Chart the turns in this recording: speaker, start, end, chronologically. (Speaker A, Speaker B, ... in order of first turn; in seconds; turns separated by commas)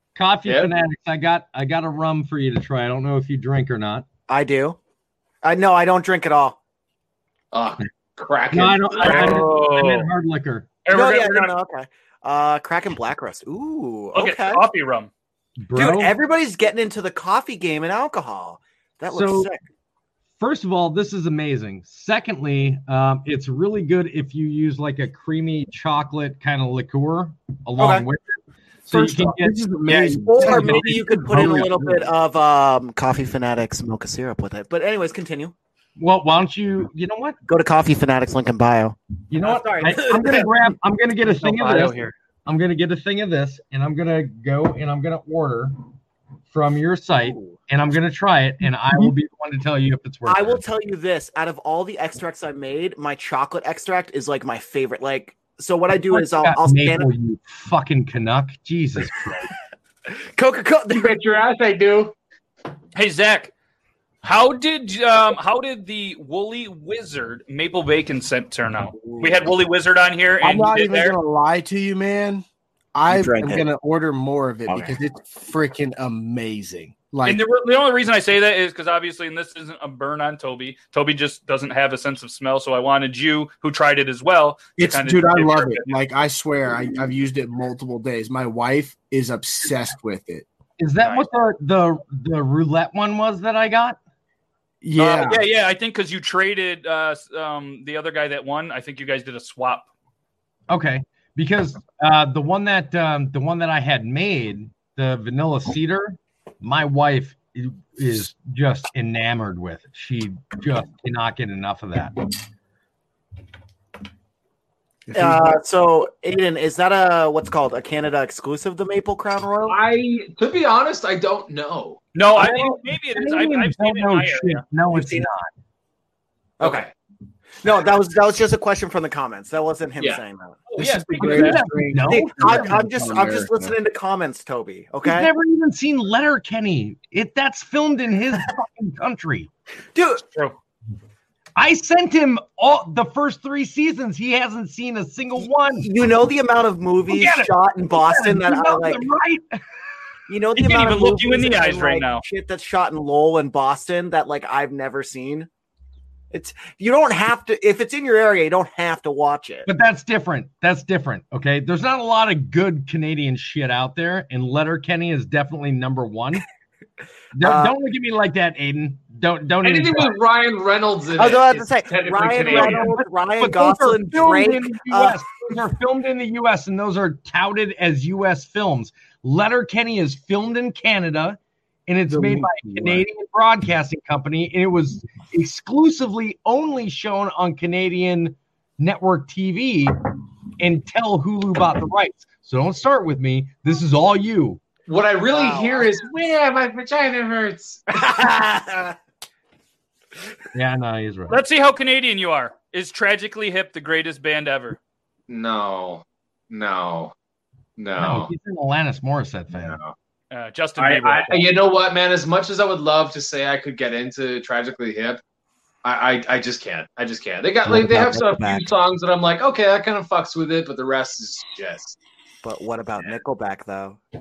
Speaker A: 0.2-4.1, Speaker B: 0.5-0.7, Speaker C: 4.3-4.8, Speaker C: 5.4-6.6, Speaker B: 7.5-9.5, Speaker A: 8.5-10.7, Speaker D: 9.0-10.1, Speaker D: 10.8-11.5, Speaker C: 10.9-14.6, Speaker D: 14.1-15.1, Speaker A: 15.6-16.1, Speaker C: 15.8-19.6, Speaker A: 19.1-19.5, Speaker A: 20.4-31.5, Speaker C: 27.8-28.1, Speaker E: 28.9-32.0, Speaker C: 30.3-35.5, Speaker A: 36.0-37.4, Speaker C: 37.5-40.5, Speaker A: 39.3-45.8, Speaker C: 41.4-42.0, Speaker A: 46.5-50.6, Speaker C: 47.2-47.6, Speaker C: 50.3-57.1, Speaker A: 56.1-59.5, Speaker C: 60.1-61.4, Speaker B: 60.9-62.1, Speaker D: 63.0-63.5, Speaker D: 64.2-71.2, Speaker C: 69.0-69.5, Speaker E: 70.4-77.4, Speaker C: 73.1-73.6, Speaker C: 74.7-75.0, Speaker D: 77.2-85.9, Speaker E: 84.8-90.5, Speaker A: 90.8-94.0, Speaker E: 94.8-95.4, Speaker D: 95.0-99.9, Speaker A: 100.7-112.2, Speaker E: 115.1-115.6, Speaker C: 115.2-119.8, Speaker B: 119.7-122.0, Speaker D: 122.2-124.6, Speaker A: 122.4-125.5, Speaker C: 124.9-125.3, Speaker C: 126.6-126.9, Speaker B: 126.6-126.9, Speaker C: 127.6-130.6, Speaker E: 130.8-133.6, Speaker D: 131.0-131.4, Speaker A: 131.2-133.5, Speaker C: 132.1-135.3, Speaker A: 135.0-139.5, Speaker C: 139.9-140.3, Speaker A: 141.6-145.9, Speaker C: 145.8-149.1, Speaker A: 147.1-149.6, Speaker C: 150.3-155.5, Speaker D: 150.6-152.2, Speaker C: 156.3-159.7, Speaker A: 159.7-166.4, Speaker A: 167.3-170.2, Speaker C: 167.4-167.8, Speaker B: 169.6-173.0, Speaker C: 171.2-175.3, Speaker A: 172.5-190.0, Speaker E: 182.1-183.1, Speaker A: 190.6-194.6, Speaker B: 194.9-197.8, Speaker C: 195.3-195.9, Speaker C: 197.9-198.9, Speaker A: 200.5-201.4, Speaker D: 201.3-204.8, Speaker B: 205.3-207.1, Speaker B: 207.8-208.3, Speaker A: 208.0-209.8, Speaker B: 209.5-209.9, Speaker D: 210.3-211.5, Speaker B: 210.8-215.2, Speaker B: 215.8-222.0, Speaker C: 217.7-218.7, Speaker C: 222.4-224.0